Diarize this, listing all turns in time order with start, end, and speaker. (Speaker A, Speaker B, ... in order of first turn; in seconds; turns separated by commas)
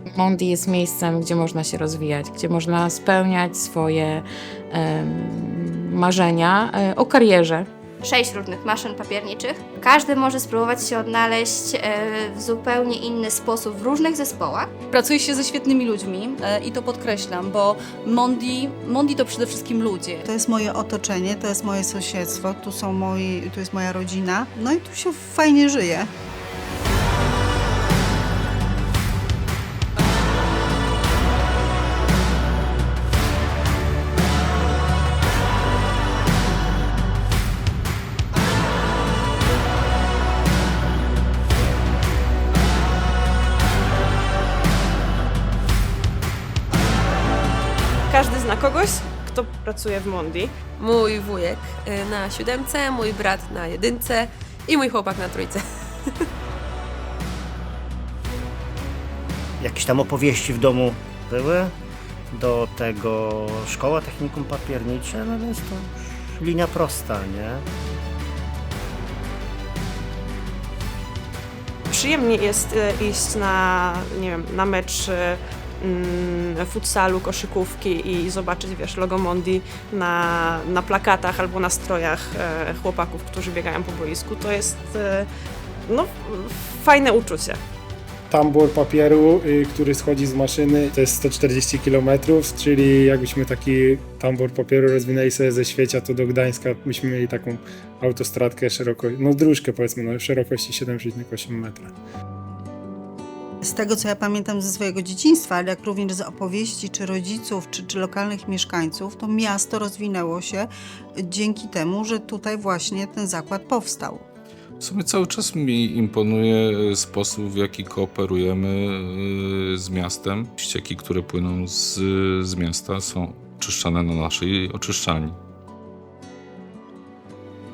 Speaker A: 0.1-7.7, Speaker B: 8.0-14.8, Speaker C: 14.9-20.2, Speaker D: 20.2-26.1, Speaker E: 48.1-50.5, Speaker F: 50.8-55.6, Speaker G: 59.6-61.7, Speaker G: 62.3-67.7, Speaker E: 71.9-85.3, Speaker E: 85.9-87.6, Speaker H: 88.3-101.9, Speaker D: 103.6-114.2, Speaker I: 114.8-125.4